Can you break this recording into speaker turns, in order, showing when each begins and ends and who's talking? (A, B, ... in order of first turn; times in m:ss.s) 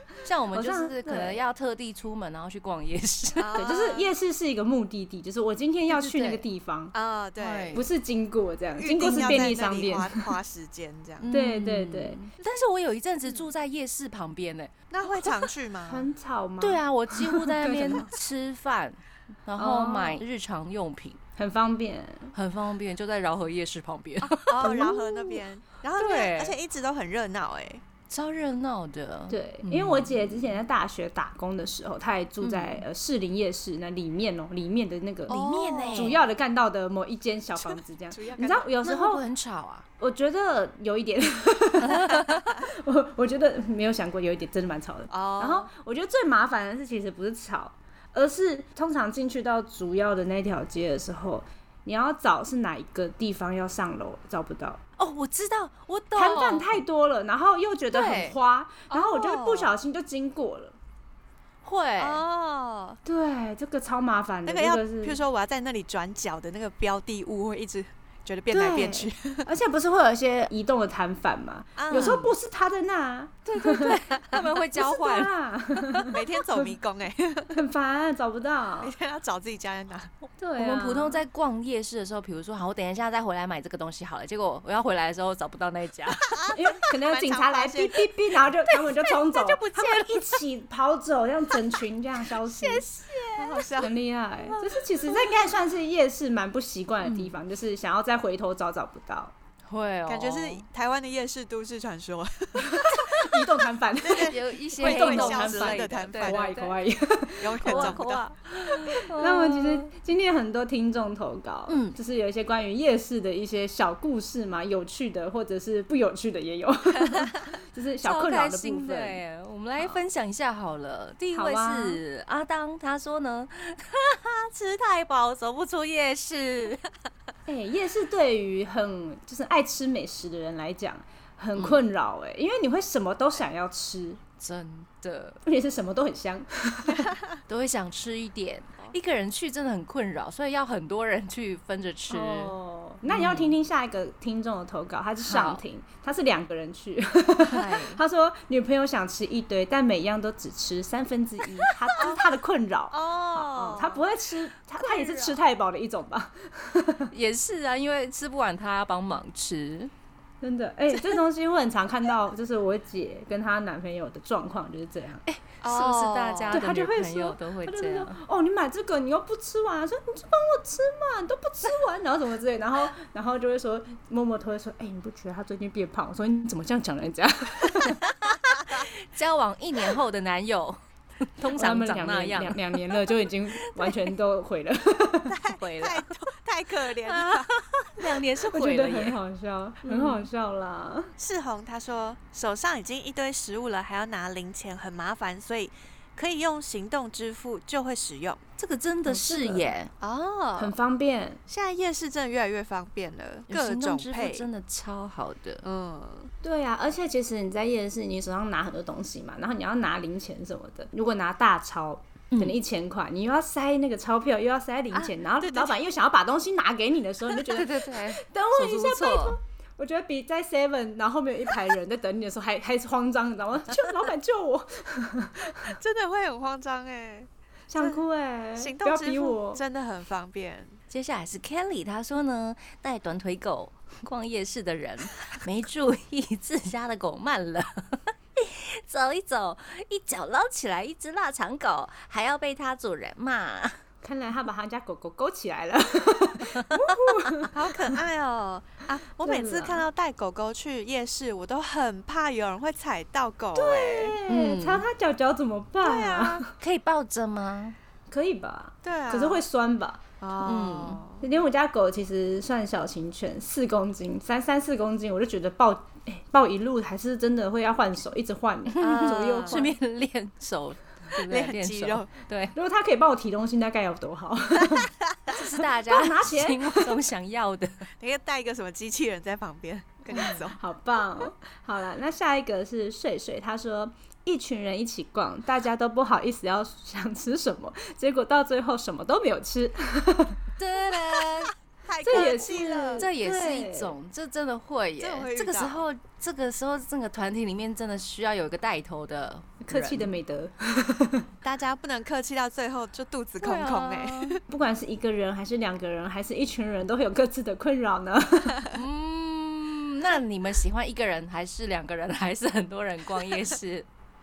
0:00.2-0:03.6 A
0:00.5-0:01.4 B
0:03.4-0:04.1 C
0:03.6-0:06.9 B
0:05.9-0:06.4 A
0:06.9-0:07.8 C
0:07.4-0:07.8 A
0:07.7-0:10.3 B
0:08.8-0:11.3 C
0:09.0-0:09.5 A
0:11.2-0:15.5 A
0:11.3-0:12.2 B
0:14.9-0:16.0 C
0:15.9-0:18.1 B
0:16.6-0:21.2 A
0:19.6-0:20.2 B
0:21.4-0:22.3 B
0:22.3-0:25.4 A
0:24.2-0:27.8 C
0:26.0-0:26.6 A
0:28.1-0:30.6 A
0:29.3-0:39.2 B
0:32.4-0:32.8 A
0:35.3-0:36.2 A
0:35.3-0:36.2 C
0:37.6-0:38.7 C
0:38.8-0:39.8 A
0:40.0-0:54.8 B
0:41.9-0:42.4 A
0:45.1-0:45.7 C
0:55.0-0:56.8 A
0:56.1-1:00.8 B
0:57.9-0:58.4 A
0:58.9-0:59.8 C
1:01.6-1:02.2 A
1:02.0-1:03.0 C
1:03.0-1:05.2 B
1:04.4-1:09.5 C
1:08.5-1:14.0 B
1:11.8-1:12.2 C
1:11.9-1:12.3 A
1:13.5-1:16.1 A
1:14.7-1:16.2 B
1:16.1-1:17.6 C
1:17.5-1:18.9 B
1:18.8-1:20.1 C
1:20.4-1:21.2 B
1:20.6-1:26.4 A
1:26.3-1:28.1 C
1:26.5-1:32.8 B
1:29.0-1:30.4 A
1:32.4-1:33.7 A
1:33.4-1:33.9 C
1:33.8-1:39.3 B
1:37.0-1:37.4 A
1:39.7-1:40.6 A
1:40.0-1:43.4 C
1:42.6-1:48.0 B
1:44.0-1:46.5 C
1:44.2-1:46.8 A
1:47.4-1:48.3 C
1:47.6-1:49.9 A
1:48.7-1:59.2 B
1:51.7-1:52.0 A
1:58.0-2:06.8 A
2:01.3-2:02.0 B
2:07.5-2:14.2 B
2:14.4-2:15.4 A
2:15.4-2:17.1 B
2:16.9-2:17.4 C
2:17.5-2:22.5 A
2:22.1-2:37.1 B
2:23.0-2:23.6 A
2:25.2-2:25.6 A
2:27.5-2:28.0 A
2:32.0-2:32.4 C
2:32.9-2:34.0 C
2:34.8-2:35.4 A
2:37.1-2:39.9 A
2:40.4-2:45.2 B
2:45.2-2:48.2 A
2:45.6-2:46.6 C
2:46.5-2:58.0 B
2:58.7-3:00.8 A
3:01.4-3:03.0 A
3:01.5-3:05.3 B
3:03.8-3:04.1 A
3:05.3-3:07.5 C
3:05.5-3:06.1 A
3:07.0-3:09.2 A
3:08.5-3:11.1 B
3:09.8-3:10.3 A
3:11.2-3:18.4 C
3:18.6-3:19.9 A
3:19.0-3:19.7 B
3:20.0-3:20.7 C
3:20.6-3:21.4 B
3:21.5-3:24.5 C
3:23.5-3:25.6 A
3:25.6-3:26.3 C
3:26.4-3:45.8 B
3:32.3-3:32.6 A
3:34.9-3:35.8 C
3:37.4-3:39.4 A
3:45.8-3:48.0 C
3:47.7-3:49.6 B
3:48.6-3:50.8 C
3:50.9-4:03.8 A
4:04.0-4:08.0 B
4:06.7-4:07.0 A
4:07.5-4:14.2 C
4:09.2-4:09.8 B
4:13.5-4:16.5 B
4:14.3-4:14.8 A
4:15.8-4:16.4 C
4:16.6-4:17.8 A
4:18.1-4:20.0 B
4:18.8-4:19.4 C
4:20.2-4:21.2 C
4:20.4-4:21.0 A
4:21.2-4:29.8 B
4:28.7-4:32.5 A
4:28.8-4:29.6 C
4:31.2-4:32.1 C
4:32.5-4:34.9 B
4:34.8-4:35.4 C
4:35.3-4:37.9 A
4:35.8-4:37.0 B
4:38.0-4:40.6 C
4:40.1-4:40.5 A
4:40.6-4:50.4 B
4:50.6-4:51.5 A
4:50.9-4:53.1 C
4:52.0-4:53.9 B
4:52.1-4:52.4 A
4:53.0-5:00.1 A
4:55.0-4:55.8 C
4:59.6-5:01.3 B
5:01.4-5:04.4 C
5:03.4-5:04.4 A
5:04.5-5:08.7 B
5:08.7-5:13.9 A